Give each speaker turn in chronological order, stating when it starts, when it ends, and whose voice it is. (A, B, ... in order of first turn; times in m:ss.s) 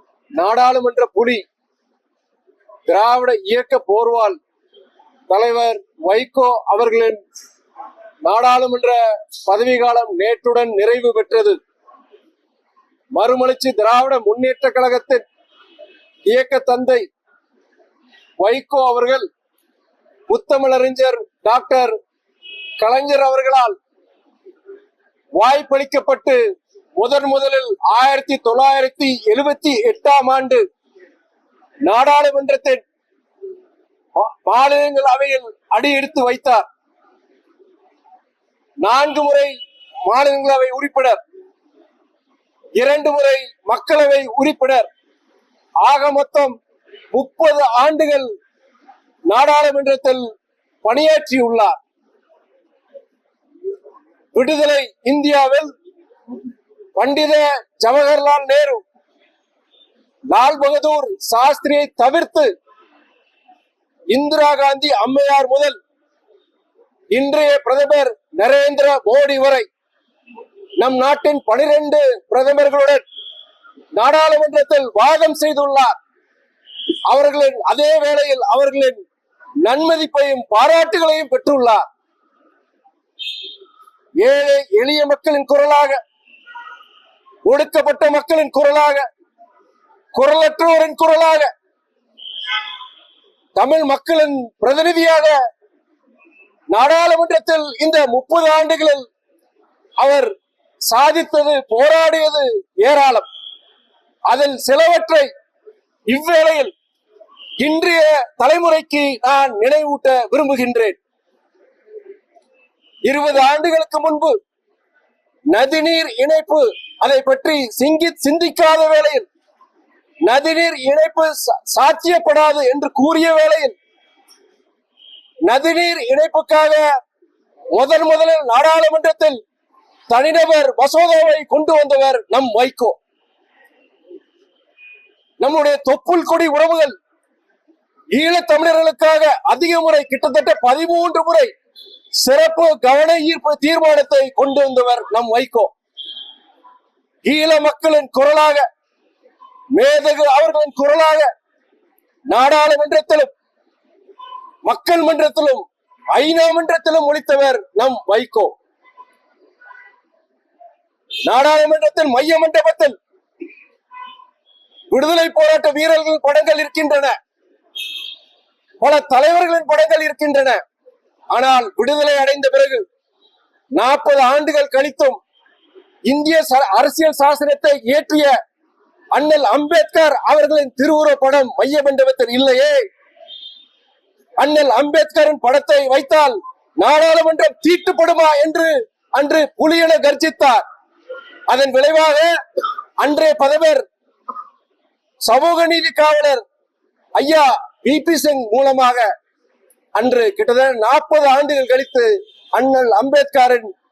0:00.4-0:01.4 A
0:02.9-0:04.4 A
0:05.3-0:07.2 A
0:08.2-0:11.6 A
0:13.1-0:15.2 A
0:16.3-0:17.0 A
0:18.4-0:19.3 A
0:20.3-0:22.0 A
0:22.8-0:23.8 A
0:25.4-0:26.4 A
0:27.0-0:30.6 A
0:31.8-0:32.8 A
0:34.2-0:36.7 A
0:38.8-0:39.5 A
0:40.1-0:41.2 A
0:42.8-0:44.9 A
0:45.8-0:46.5 A
0:47.1-0:48.3 A
0:49.3-0:50.3 A
0:50.8-0:51.7 A
0:54.3-0:55.7 A
0:57.0-0:58.8 A
1:00.3-1:02.5 A
1:04.1-1:05.8 A
1:07.1-1:09.7 A
1:10.8-1:13.0 A
1:13.9-1:16.0 A
1:17.1-1:19.0 A
1:19.6-1:21.8 A
1:24.2-1:26.0 A
1:27.5-1:29.0 A
1:30.1-1:31.5 A
1:33.6-1:35.4 A
1:36.7-1:39.1 A
1:40.0-1:40.3 A
1:40.9-1:43.3 A
1:44.3-1:45.3 A
1:46.1-1:46.7 A
1:47.6-1:51.0 A
1:53.0-1:54.4 A
1:55.5-1:59.3 A
2:00.2-2:03.8 A
2:05.4-2:06.8 A
2:07.7-2:09.4 A
2:10.1-2:13.0 A
2:15.4-2:17.0 A
2:18.1-2:21.5 A
2:22.2-2:25.7 A
2:27.2-2:28.7 A
2:29.7-2:31.3 A
2:32.3-2:33.3 A
2:34.6-2:38.5 A
2:41.3-2:43.0 A
2:44.9-2:47.1 A
2:48.8-2:50.6 A
2:51.3-2:52.8 A
2:53.7-2:55.2 A
2:56.1-2:58.3 A
2:59.1-3:02.8 A
3:04.4-3:10.6 A
3:11.5-3:12.4 A
3:13.0-3:13.8 A
3:15.2-3:16.4 A
3:17.2-3:19.1 A
3:20.0-3:23.7 A